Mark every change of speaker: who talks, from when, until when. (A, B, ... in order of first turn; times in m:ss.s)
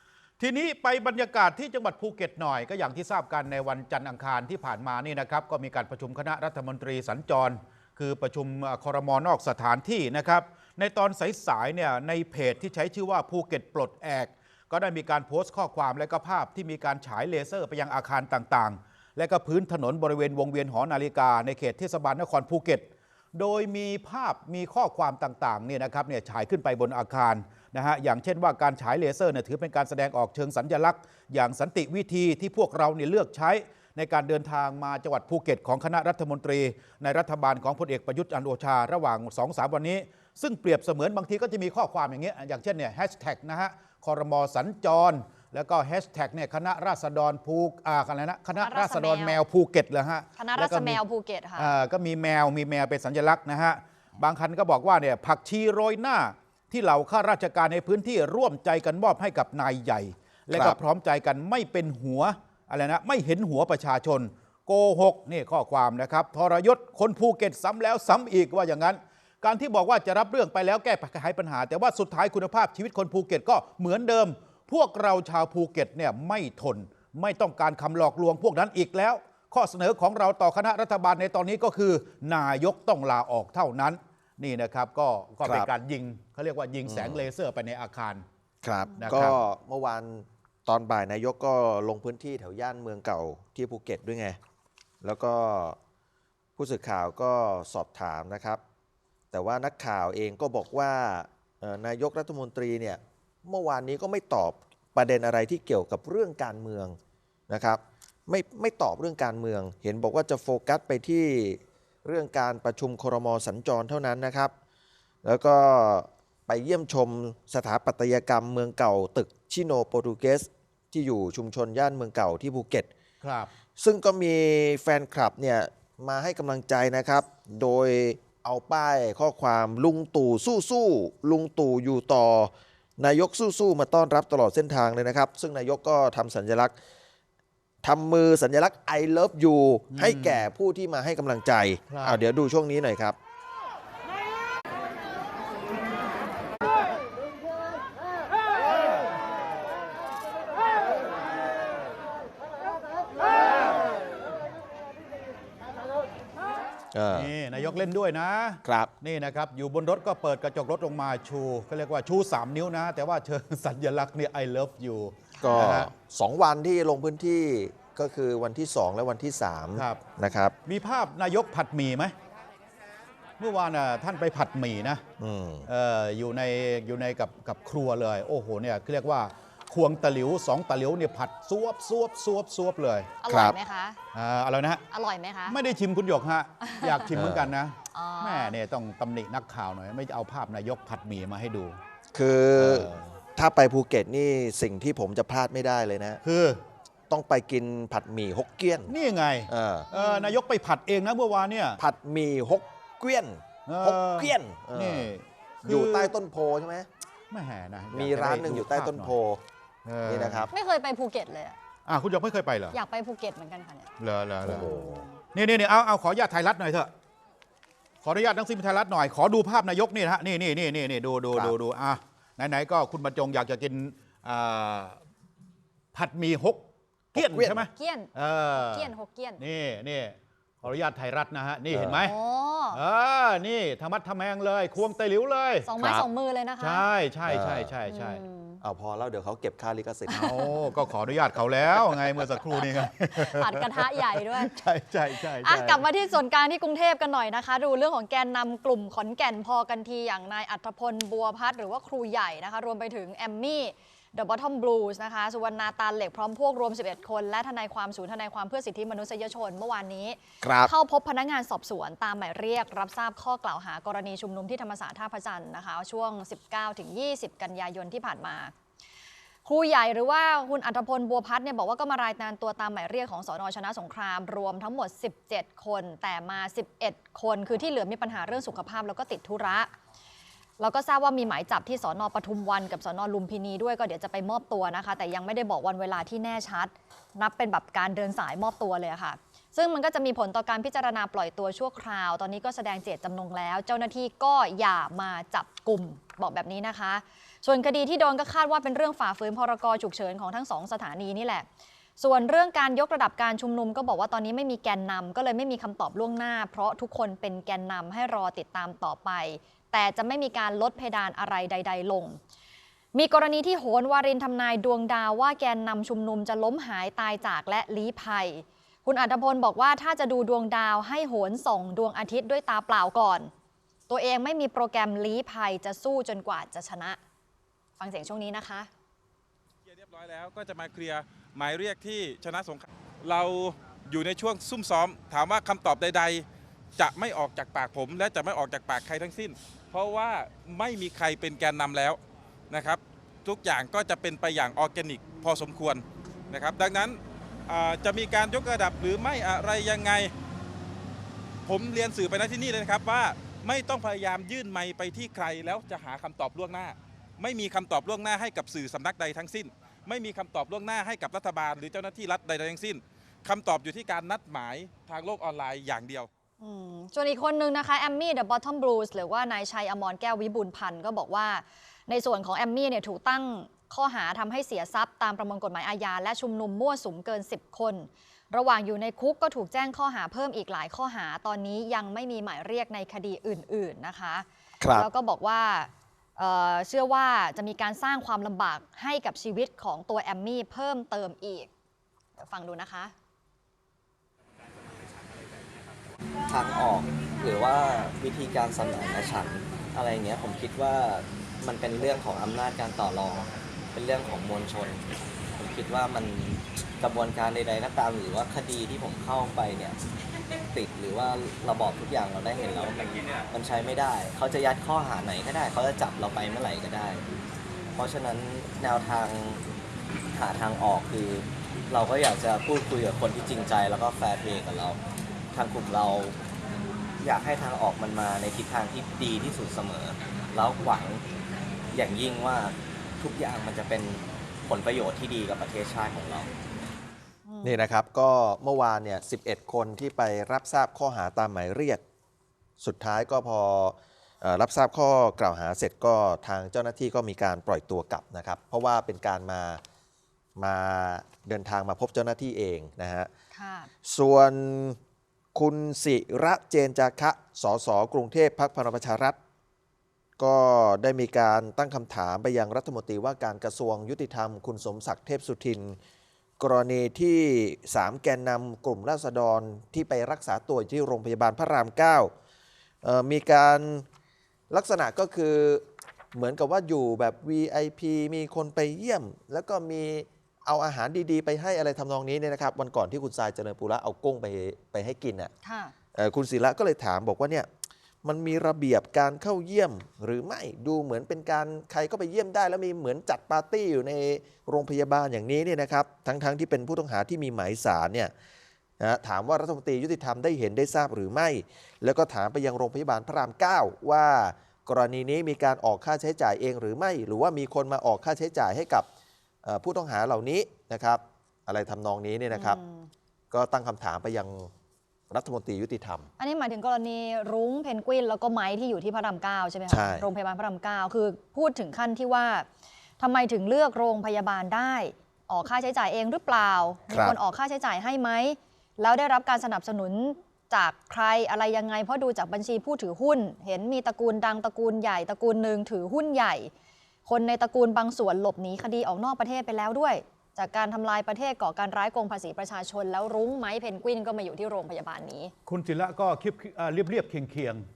0:00.4-0:51.0 A
0:48.6-0:49.4 B
0:50.4-0:51.7 B
0:51.6-1:28.2 A
1:00.5-1:00.8 C
1:25.4-1:25.7 C
1:26.8-1:27.2 C
1:28.6-1:34.4 C
1:29.0-1:29.4 A
1:35.0-1:35.8 C
1:36.6-1:38.6 C
1:39.3-1:47.0 C
1:47.5-1:54.5 C
1:55.2-2:02.9 C
2:03.2-2:03.5 A
2:03.8-2:16.8 C
2:17.8-2:23.2 C
2:19.9-2:20.4 A
2:21.9-2:22.2 A
2:36.9-2:37.3 C
2:37.1-2:45.9 A
2:38.6-2:38.9 C
2:45.3-2:45.6 B
2:45.4-2:50.5 C
2:49.8-2:50.0 A
2:50.6-2:52.1 A
2:53.4-2:55.0 A
2:55.2-2:55.7 C
2:55.7-3:03.1 A
3:03.2-3:04.0 B
3:03.3-3:03.6 C
3:04.1-3:04.8 A
3:04.9-3:05.6 B
3:05.5-3:11.8 A
3:06.6-3:07.0 B
3:07.1-3:07.5 C
3:07.9-3:08.6 B
3:12.1-3:16.2 C
3:12.6-3:13.0 A
3:16.2-3:16.6 A
3:17.1-3:18.9 C
3:18.9-3:21.8 A
3:19.5-3:19.9 C
3:19.9-3:20.4 B
3:21.8-3:25.1 C
3:23.7-3:26.1 A
3:25.6-3:26.9 C
3:27.3-3:29.1 A
3:27.9-3:29.4 C
3:29.8-3:30.5 A
3:30.0-3:30.5 C
3:30.5-3:31.6 B
3:31.8-3:32.7 A
3:32.7-3:33.9 B
3:34.0-3:34.7 A
3:34.4-3:35.0 C
3:34.5-3:35.2 B
3:35.3-3:36.9 A
3:38.0-3:45.0 A
3:45.9-3:46.6 A
3:47.1-3:47.6 C
3:47.1-3:52.1 A
3:47.7-3:49.4 B
3:51.7-3:52.0 C
3:52.0-3:52.8 B
3:52.7-3:56.0 A
3:55.6-3:56.8 B
3:56.6-3:58.2 A
3:57.3-3:57.7 C
3:57.8-3:58.6 B
3:58.6-4:00.3 C
4:00.1-4:00.4 B
4:00.1-4:05.9 A
4:03.1-4:04.5 B
4:05.4-4:28.5 B
4:20.4-4:20.7 C
4:29.4-4:39.7 B
4:40.6-5:01.5 B
5:02.0-5:12.2 B
5:12.9-5:23.3 B
5:23.9-5:27.0 B
5:27.8-5:28.7 B
5:29.7-5:36.2 D
5:36.8-5:42.0 D
5:42.5-5:50.1 D
5:51.4-6:06.1 D
6:06.4-6:31.5 B
6:24.6-6:24.9 C
6:32.2-6:32.9 B
6:36.3-6:44.8 E
6:45.4-6:49.8 E
6:50.5-6:57.0 E
6:57.7-6:59.4 E
7:00.1-7:04.8 E
7:05.3-7:06.2 E
7:07.0-7:11.0 E
7:11.7-7:16.3 E
7:17.2-7:17.6 B
7:17.4-7:21.8 C
7:22.6-7:29.6 C
7:30.4-7:33.1 C
7:33.3-7:33.7 B
7:33.8-7:34.8 C
7:35.3-7:39.2 C
7:40.2-7:45.8 C
7:46.4-7:52.1 C
7:52.8-7:53.8 C
7:54.5-8:05.3 C
8:05.4-8:05.7 B
8:05.9-8:07.5 C
8:08.0-8:18.1 C
8:18.8-8:28.9 C
8:29.4-8:32.6 C
8:32.3-8:32.9 B
8:33.3-8:34.5 C
8:35.1-8:36.1 C
8:36.2-8:42.5 B
8:39.7-8:40.0 C
8:43.0-8:56.5 B
8:46.9-8:47.2 C
8:57.0-9:05.3 B
9:05.4-9:07.6 A